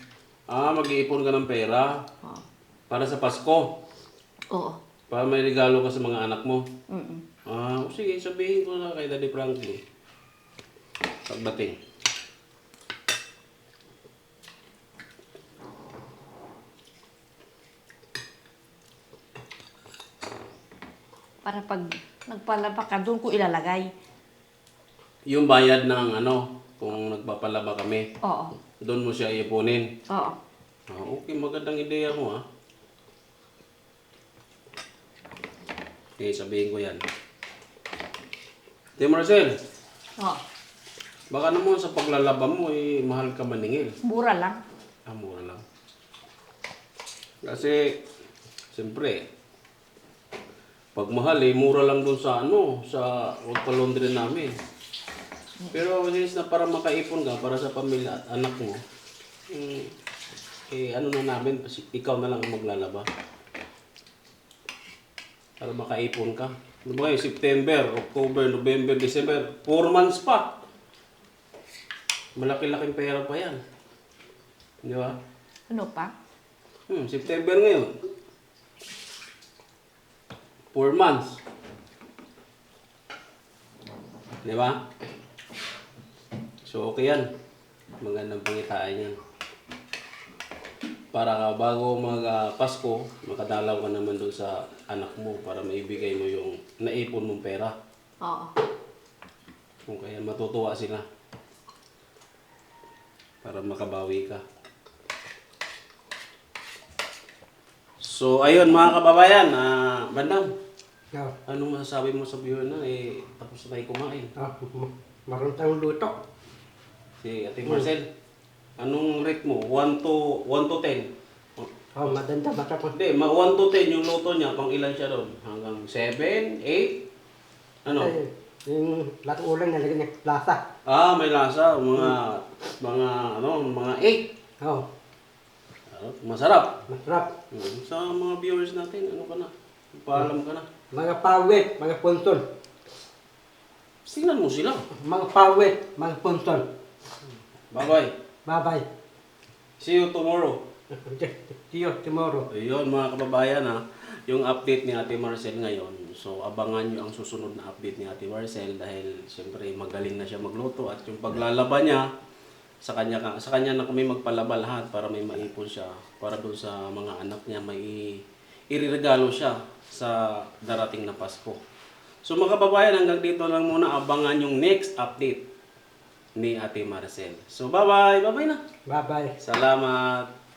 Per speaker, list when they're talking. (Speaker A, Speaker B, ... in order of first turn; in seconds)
Speaker A: 0.5-2.1, 2.9-3.7, 5.1-6.7, 7.5-9.8, 11.3-11.8, 25.3-28.1, 28.8-29.9, 30.9-32.4, 36.2-37.0, 39.0-39.6, 41.3-44.0, 45.1-45.6, 47.4-48.0, 48.7-49.3, 51.0-54.5, 55.7-58.8, 59.5-59.9, 60.7-63.1, 65.6-70.5, 72.4-73.6, 74.8-75.2, 76.9-77.9, 80.7-81.4, 84.4-84.8, 86.7-87.3, 88.0-89.2, 91.1-97.8, 99.9-101.0, 103.4-104.4, 108.0-110.5, 111.5-114.3, 117.2-118.1, 118.8-121.7, 122.9-127.0, 127.8-128.2, 130.9-134.3, 135.9-136.8, 137.5-140.7, 144.1-144.9, 147.7-148.1, 149.8-150.6, 152.5-162.1, 162.8-171.6, 172.2-175.4, 176.4-178.6, 179.4-180.3
Speaker B: 4.5-4.8, 6.9-7.2, 21.4-23.9, 28.2-28.6, 30.1-30.4, 44.0-44.6, 75.7-76.1, 98.2-98.6
Speaker C: 114.4-116.2, 122.0-122.9, 128.0-130.6, 134.6-134.9, 136.9-137.3, 140.9-142.5, 145.0-146.7, 148.5-148.9, 150.9-152.5, 178.9-179.3